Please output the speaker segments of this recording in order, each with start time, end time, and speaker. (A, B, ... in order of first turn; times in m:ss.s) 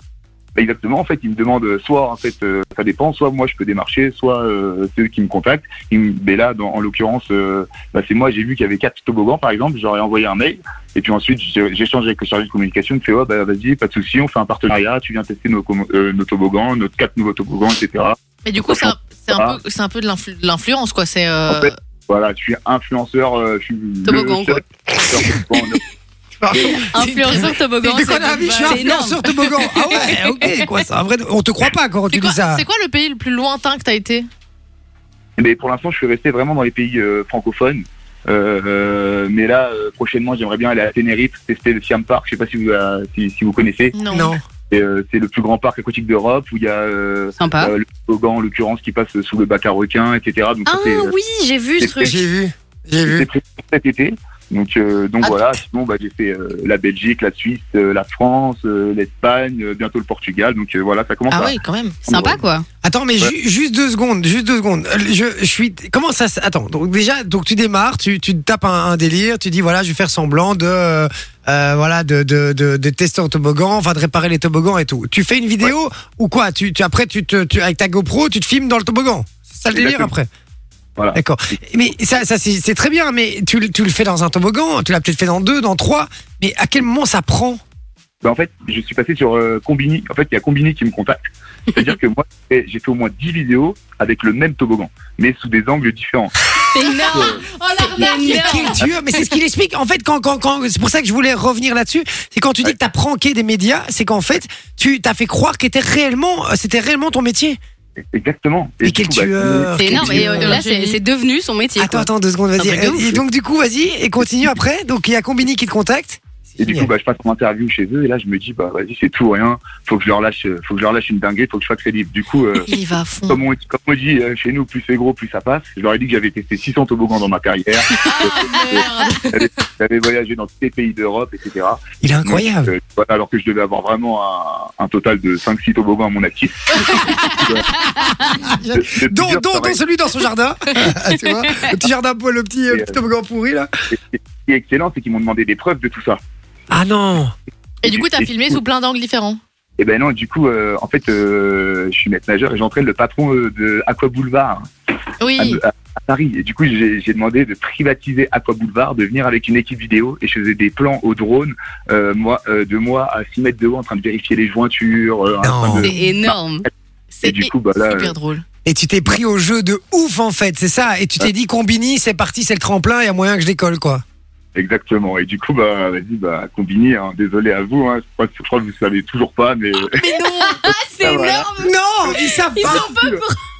0:00.6-0:19.6 A
0:18.4-0:21.7 B
0:21.5-0:25.8 A
0:24.0-0:24.6 C
0:26.4-0:32.6 D
0:26.9-0:29.2 C
0:27.1-0:27.5 B
0:28.1-0:30.2 B
0:32.1-0:34.3 B
0:35.4-0:43.9 A
0:43.9-0:44.4 B
0:44.1-0:44.4 D
0:44.7-0:51.1 A
0:47.4-0:47.7 C
0:50.6-0:52.2 C
0:51.8-0:52.2 A
0:52.0-0:53.3 D
0:53.0-1:01.5 A
1:01.3-1:02.0 B
1:02.1-1:02.4 A
1:02.1-1:02.6 C
1:02.8-1:20.3 D
1:19.7-1:20.1 A
1:21.1-1:27.6 D
1:28.2-1:31.2 A
1:31.7-1:36.3 A
1:36.7-1:38.8 C
1:37.0-1:37.4 A
1:37.2-1:38.8 B
1:38.0-1:47.6 D
1:48.1-1:50.4 A
1:48.8-1:50.6 D
1:49.7-1:52.1 C
1:50.2-1:51.0 B
1:51.8-1:56.9 D
1:52.6-1:53.0 C
1:56.6-2:02.7 A
2:02.6-2:03.4 B
2:03.3-2:17.7 A
2:07.9-2:09.5 B
2:12.0-2:12.7 D
2:17.9-2:18.4 C
2:18.2-2:23.7 D
2:18.7-2:19.8 A
2:23.9-2:26.2 A
2:26.7-2:27.3 D
2:27.8-2:29.4 B
2:27.8-2:28.5 A
2:29.8-2:34.7 A
2:35.2-2:35.6 B
2:35.4-2:46.4 A
2:45.4-2:45.9 D
2:45.8-2:46.7 C
2:47.1-2:48.4 B
2:47.2-2:48.1 A
2:48.6-2:54.0 D
2:54.5-3:00.0 A
3:00.0-3:03.4 C
3:00.0-3:00.6 B
3:01.0-3:01.5 A
3:01.6-3:02.9 D
3:02.6-3:03.2 A